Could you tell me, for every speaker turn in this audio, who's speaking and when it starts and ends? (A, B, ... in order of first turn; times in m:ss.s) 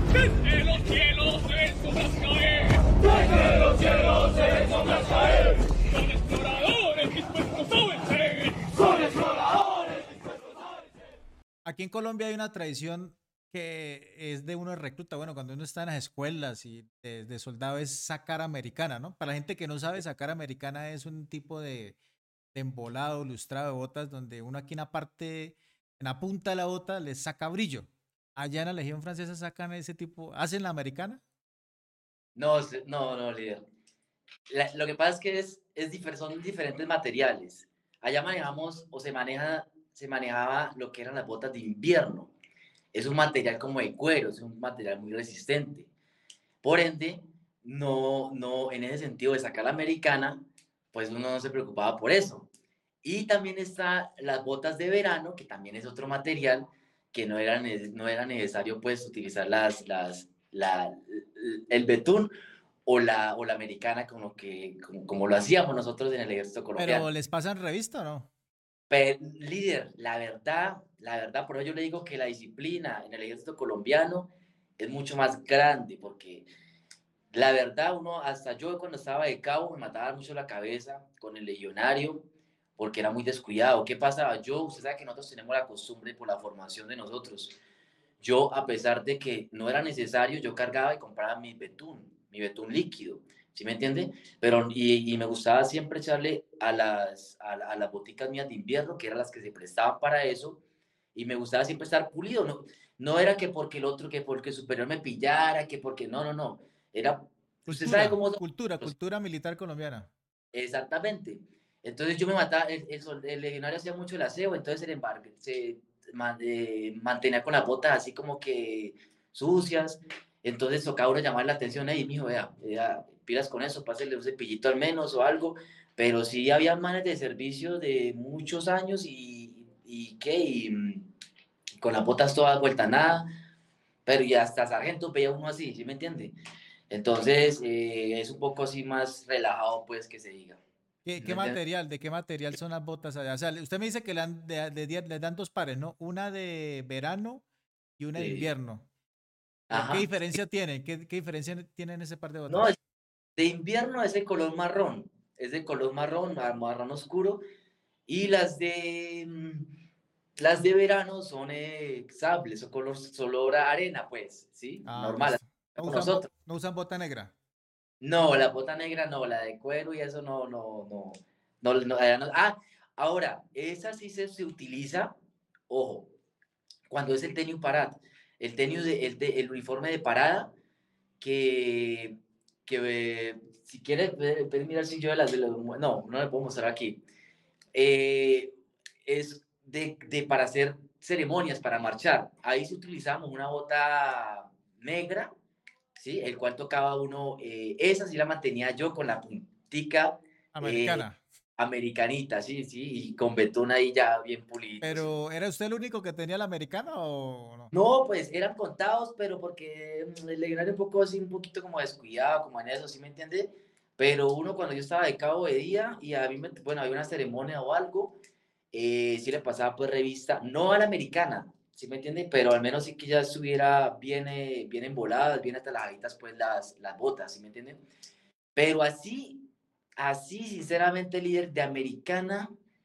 0:00.5-0:03.0 A
0:03.5-0:05.0 A
0:06.3-0:08.3 A
0:11.6-0:22.0 B
0:22.5-0:31.2 B
0:32.4-0:33.6 C
0:34.5-0:42.3 C
0:42.9-0:45.9 C
0:46.6-0:50.4 C
0:50.9-0:52.5 C
0:53.0-1:02.3 C
1:02.8-1:07.0 C
1:06.8-1:08.3 B
1:08.9-1:16.4 C
1:17.3-1:27.6 C
1:28.2-1:40.6 C
1:41.1-1:48.9 C
1:47.7-1:50.1 B
1:50.5-2:11.0 C
2:11.8-2:13.3 C
2:14.0-2:16.3 C
2:16.9-2:20.6 C
2:21.0-2:27.4 B
2:21.2-2:21.6 C
2:28.0-2:28.9 B
2:28.1-2:28.5 C
2:29.7-2:30.1 C
2:29.7-2:32.7 B
2:32.5-2:32.7 C
2:33.4-2:37.4 C
2:38.1-2:39.7 C
2:40.4-2:46.3 C
2:44.8-2:47.3 B
2:48.0-2:55.1 C
2:55.7-2:56.1 C
2:56.9-3:00.5 C
3:01.2-3:02.1 C
3:02.6-3:07.0 C
3:07.7-3:08.5 C
3:09.0-3:15.3 C
3:15.9-3:21.0 C
3:20.5-3:21.2 B
3:21.6-3:25.1 C
3:24.8-3:27.7 B
3:27.7-3:38.2 C
3:38.7-3:47.8 C
3:48.5-3:49.4 C
3:50.0-3:52.5 C